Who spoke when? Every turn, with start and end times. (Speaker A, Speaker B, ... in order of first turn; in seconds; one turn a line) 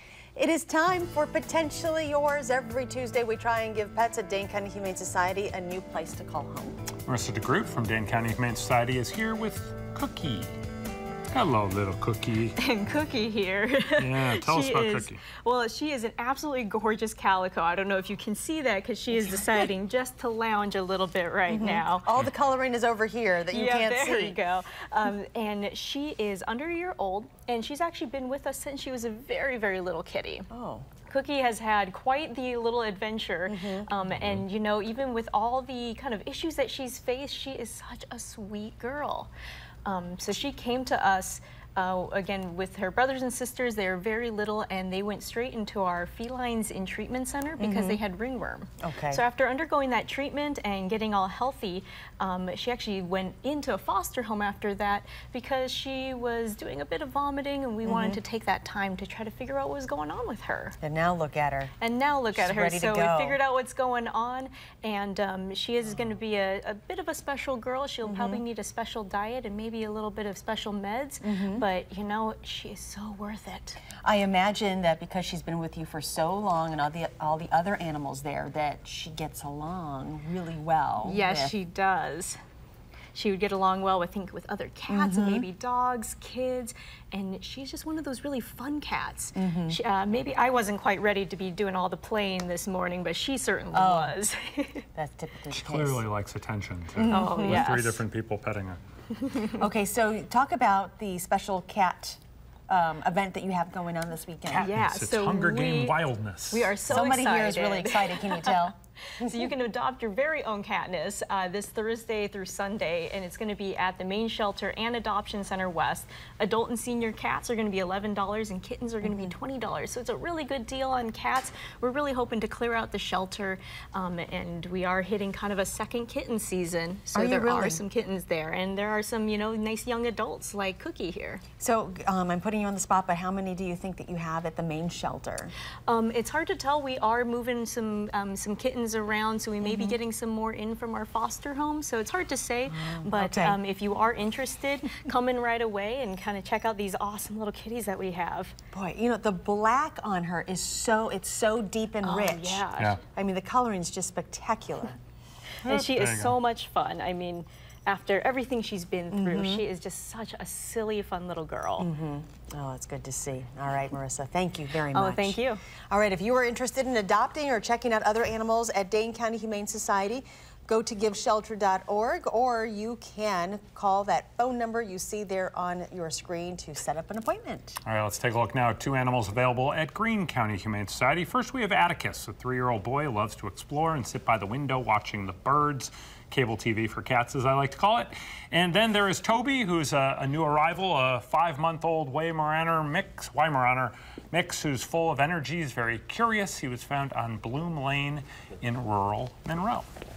Speaker A: 0.4-6.8
Speaker B: 7.1-10.5
Speaker B: 11.3-12.6
Speaker C: 12.6-22.1
Speaker B: 14.0-15.2
Speaker A: 19.1-19.7
Speaker A: 21.5-24.4
Speaker C: 23.5-30.5
Speaker A: 30.5-30.9
Speaker C: 31.1-39.3
Speaker A: 33.5-33.9
Speaker B: 34.2-34.4
Speaker C: 39.9-60.8
Speaker A: 47.6-48.0
Speaker A: 48.8-49.2
Speaker A: 57.9-58.2
Speaker A: 60.8-61.7
Speaker C: 61.8-73.8
Speaker A: 62.3-63.4
Speaker A: 68.0-68.4
Speaker A: 71.2-71.7
Speaker A: 74.0-81.5
Speaker C: 81.0-82.4
Speaker C: 83.1-94.9
Speaker A: 84.9-85.5
Speaker A: 89.3-89.8
Speaker A: 93.7-94.2
Speaker A: 95.0-96.0
Speaker B: 95.5-98.8
Speaker A: 97.0-97.7
Speaker C: 97.1-98.0
Speaker C: 99.2-99.5
Speaker A: 99.6-104.7
Speaker B: 104.5-107.0
Speaker C: 104.6-106.0
Speaker C: 106.5-108.7
Speaker A: 106.9-109.5
Speaker C: 109.2-131.4
Speaker A: 119.0-119.3
Speaker A: 127.2-127.8
Speaker A: 131.6-135.5
Speaker C: 135.9-148.6
Speaker A: 139.6-140.0
Speaker A: 142.7-143.6
Speaker A: 148.7-152.6
Speaker C: 152.0-153.0
Speaker A: 153.1-155.0
Speaker B: 155.7-156.4
Speaker C: 155.7-161.9
Speaker A: 159.1-159.6
Speaker A: 161.8-177.8
Speaker C: 164.9-165.6
Speaker B: 177.9-199.9